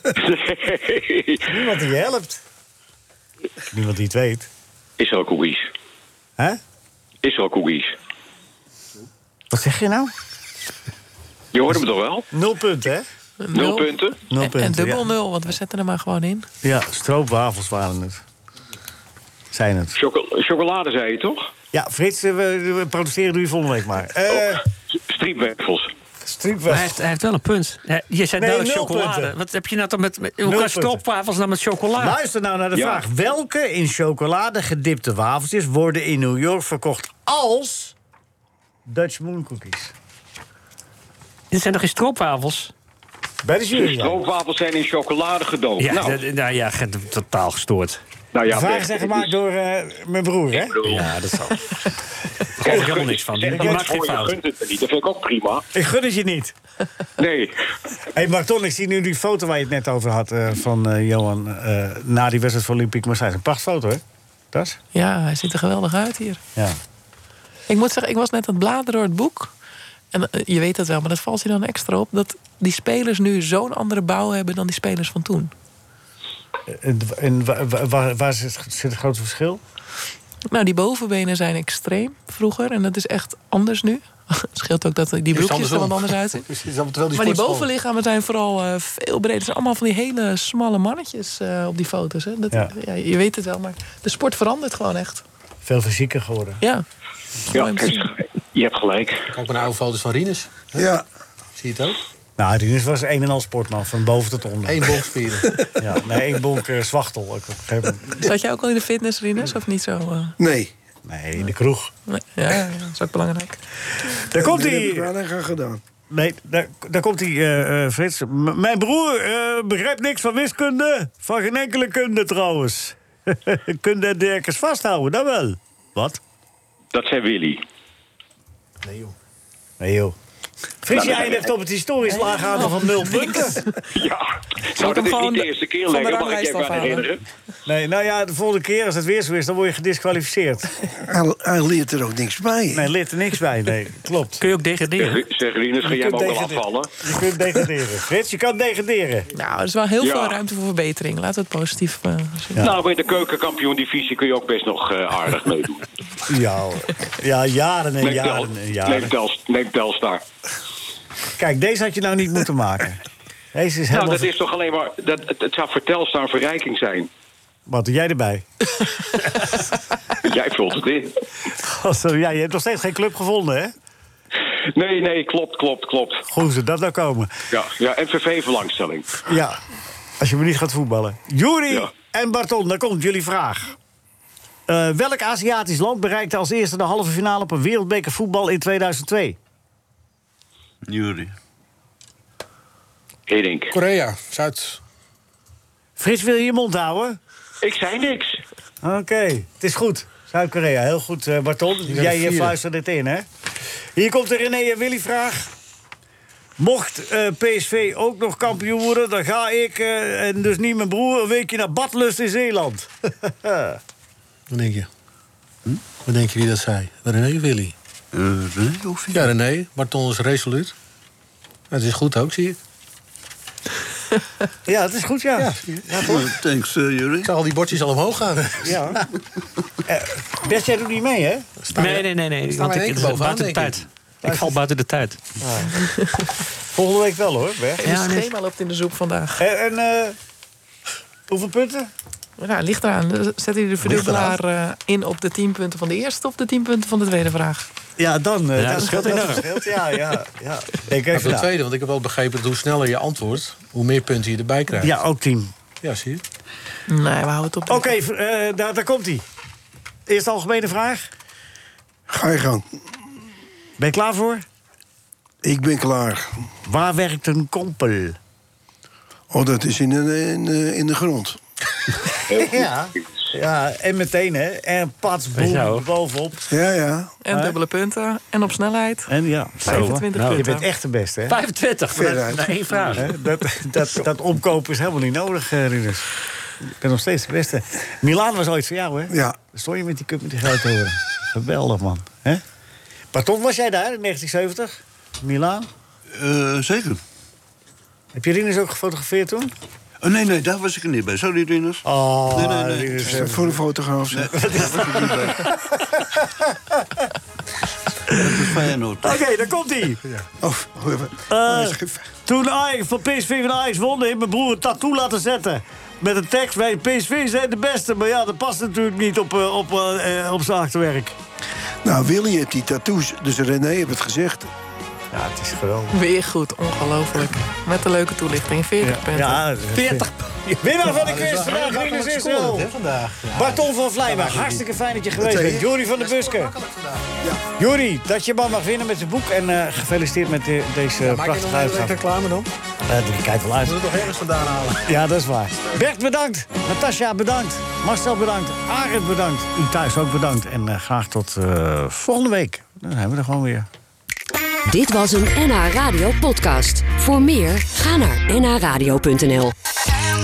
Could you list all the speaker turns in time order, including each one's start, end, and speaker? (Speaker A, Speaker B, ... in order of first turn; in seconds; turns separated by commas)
Speaker A: 0.1-1.5, Speaker B: 1.5-2.4, Speaker B: 3.7-4.5, Speaker A: 5.0-5.7, Speaker A: 7.2-8.0, Speaker B: 9.5-10.1, Speaker A: 11.5-12.3, Speaker B: 12.3-13.1, Speaker C: 13.4-16.5, Speaker A: 13.5-14.2, Speaker B: 14.3-15.0, Speaker B: 16.6-18.2, Speaker B: 19.5-19.9, Speaker A: 19.9-21.5, Speaker B: 21.7-24.6, Speaker A: 24.3-25.9, Speaker B: 26.2-26.9, Speaker D: 26.7-32.2, Speaker B: 28.4-29.3, Speaker B: 30.4-31.0, Speaker B: 32.0-37.9, Speaker A: 32.7-33.0, Speaker B: 38.9-39.9, Speaker D: 41.5-42.7, Speaker B: 43.4-44.2, Speaker A: 43.7-46.2, Speaker D: 45.8-48.0, Speaker A: 48.3-49.4, Speaker B: 48.5-50.8, Speaker A: 50.5-51.1, Speaker D: 50.9-51.8, Speaker A: 52.6-55.6, Speaker D: 52.6-54.4, Speaker B: 53.5-53.8, Speaker B: 55.7-56.5, Speaker A: 57.2-57.6, Speaker B: 58.1-64.8, Speaker C: 64.9-66.4, Speaker C: 67.7-69.5, Speaker C: 70.1-75.5, Speaker B: 76.7-79.6, Speaker C: 80.5-86.5, Speaker E: 85.3-87.7, Speaker C: 87.1-95.2, Speaker B: 95.6-96.6, Speaker C: 97.5-98.1, Speaker A: 97.5-99.2, Speaker E: 99.3-100.9, Speaker F: 100.7-101.0, Speaker E: 101.6-102.0, Speaker B: 102.4-104.8, Speaker E: 104.6-105.7, Speaker B: 105.8-108.2, Speaker C: 108.1-110.3, Speaker F: 110.4-110.7, Speaker B: 111.0-111.9, Speaker C: 112.1-113.6, Speaker B: 114.1-115.1, Speaker F: 114.3-115.8, Speaker B: 116.1-126.2, Speaker A: 126.9-127.6, Speaker E: 128.8-129.1, Speaker B: 129.8-130.1, Speaker B: 130.8-133.6, Speaker A: 130.9-131.5, Speaker C: 132.1-133.8, Speaker A: 133.8-137.2, Speaker C: 134.8-137.1, Speaker B: 137.7-140.7, Speaker F: 141.1-142.9, Speaker B: 142.7-144.4, Speaker D: 144.4-145.2, Speaker A: 145.0-146.9, Speaker B: 145.8-149.3, Speaker C: 149.3-152.6, Speaker A: 150.0-150.4, Speaker A: 152.6-155.9, Speaker B: 156.3-159.1, Speaker A: 158.0-160.2, Speaker B: 161.4-163.0, Speaker B: 163.5-164.3, Speaker A: 163.9-167.1, Speaker B: 167.7-168.5, Speaker A: 170.1-171.2, Speaker B: 171.6-173.7, Speaker A: 174.7-176.2, Speaker B: 176.3-177.3, Speaker A: 177.5-179.2, Speaker B: 179.2-179.6, Speaker B: 180.2-183.8, Speaker B: 184.7-189.4, Speaker G: 190.8-191.3, Speaker A: 193.3-193.7, Speaker E: 193.7-194.8, Speaker B: 196.0-197.2, Speaker A: 197.6-198.4, Speaker B: 198.8-203.2, Speaker E: 201.9-202.5, Speaker B: 203.9-205.5, Speaker B: 206.6-213.8, Speaker E: 214.5-214.9, Speaker E: 215.9-217.7, Speaker G: 218.1-219.3, Speaker E: 219.1-220.7, Speaker E: 221.7-222.6, Speaker B: 224.7-226.3, Speaker E: 225.4-225.9, Speaker G: 226.0-227.3, Speaker E: 227.2-229.0, Speaker B: 228.6-229.0, Speaker B: 229.9-231.4, Speaker E: 231.6-233.8, Speaker D: 231.7-235.2, Speaker B: 234.2-234.5, Speaker B: 235.4-235.8, Speaker C: 235.7-236.3, Speaker B: 236.7-237.8, Speaker C: 237.8-239.4, Speaker D: 237.8-238.3, Speaker B: 239.4-240.2, Speaker B: 241.3-241.9, Speaker C: 242.4-247.7, Speaker B: 248.0-251.5, Speaker D: 248.6-249.4, Speaker E: 251.1-255.0, Speaker B: 254.8-255.5, Speaker E: 255.8-256.2, Speaker C: 256.9-257.9, Speaker B: 257.7-259.2, Speaker B: 260.1-261.1, Speaker F: 262.1-262.6, Speaker B: 263.8-264.4, Speaker F: 265.4-266.5, Speaker B: 266.6-268.2, Speaker F: 269.3-271.4, Speaker A: 272.3-272.7, Speaker B: 272.3-276.5, Speaker D: 275.3-275.8, Speaker F: 276.5-277.1, Speaker C: 277.2-279.1, Speaker B: 277.3-277.5, Speaker B: 279.1-281.4, Speaker C: 279.6-280.7, Speaker D: 279.6-280.4, Speaker D: 281.3-283.1, Speaker F: 281.9-283.0, Speaker B: 283.0-286.1, Speaker B: 286.7-292.4, Speaker F: 289.1-289.4, Speaker B: 293.1-295.7, Speaker G: 296.1-297.0, Speaker B: 298.1-299.5, Speaker G: 300.0-303.2, Speaker B: 301.8-303.6, Speaker F: 303.0-305.4, Speaker G: 304.1-305.5, Speaker B: 304.3-307.0, Speaker G: 308.1-309.2, Speaker B: 309.0-310.0, Speaker F: 310.4-312.1, Speaker B: 311.3-321.1, Speaker F: 321.8-324.5, Speaker B: 325.1-325.9, Speaker C: 325.9-329.4, Speaker B: 328.8-330.1, Speaker B: 330.6-332.7, Speaker E: 330.7-334.6, Speaker B: 333.3-336.5, Speaker F: 335.2-335.6, Speaker E: 335.8-337.1, Speaker B: 337.6-342.0, Speaker E: 341.0-342.5, Speaker B: 342.9-343.8, Speaker E: 343.6-345.0, Speaker B: 344.9-353.7, Speaker H: 354.7-359.5